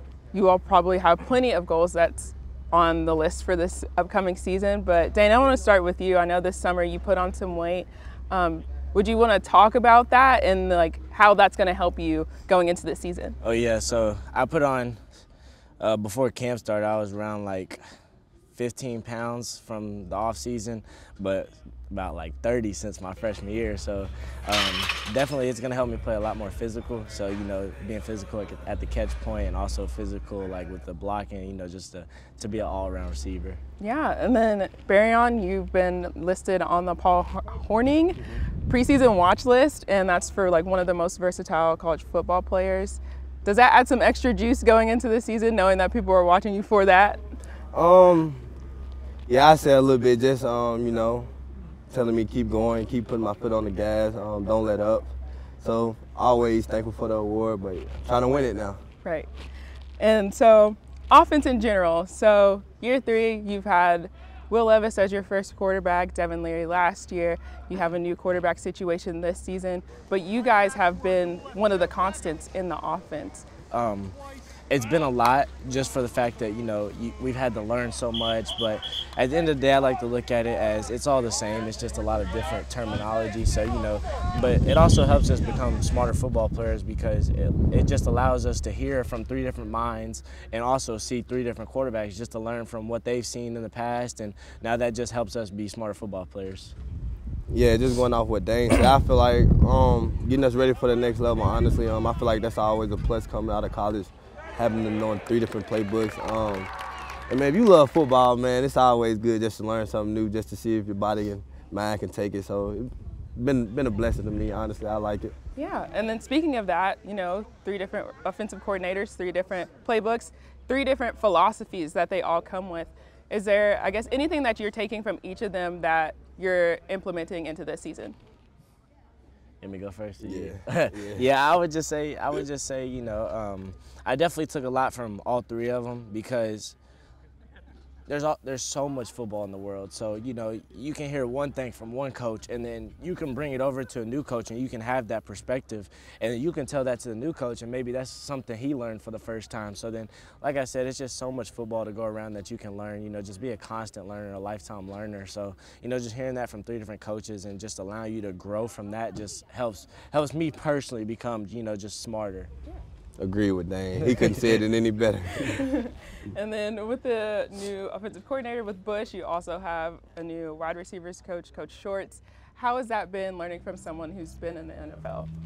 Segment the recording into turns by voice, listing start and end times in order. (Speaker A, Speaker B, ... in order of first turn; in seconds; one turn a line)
Speaker A: 0.3-13.4
Speaker B: 13.4-15.0
Speaker B: 15.8-17.8
Speaker B: 18.6-33.6
Speaker A: 33.8-47.2
Speaker C: 47.7-48.4
Speaker C: 49.3-51.3
Speaker C: 51.9-58.8
Speaker A: 60.0-73.5
Speaker B: 73.7-74.2
Speaker B: 74.7-96.8
Speaker C: 97.5-106.7
Speaker C: 107.3-115.3
Speaker A: 115.6-128.2
Speaker B: 129.6-136.8
Speaker C: 130.2-131.3
Speaker B: 138.1-162.5
Speaker C: 163.2-165.6
Speaker B: 164.0-164.6
Speaker A: 165.4-175.3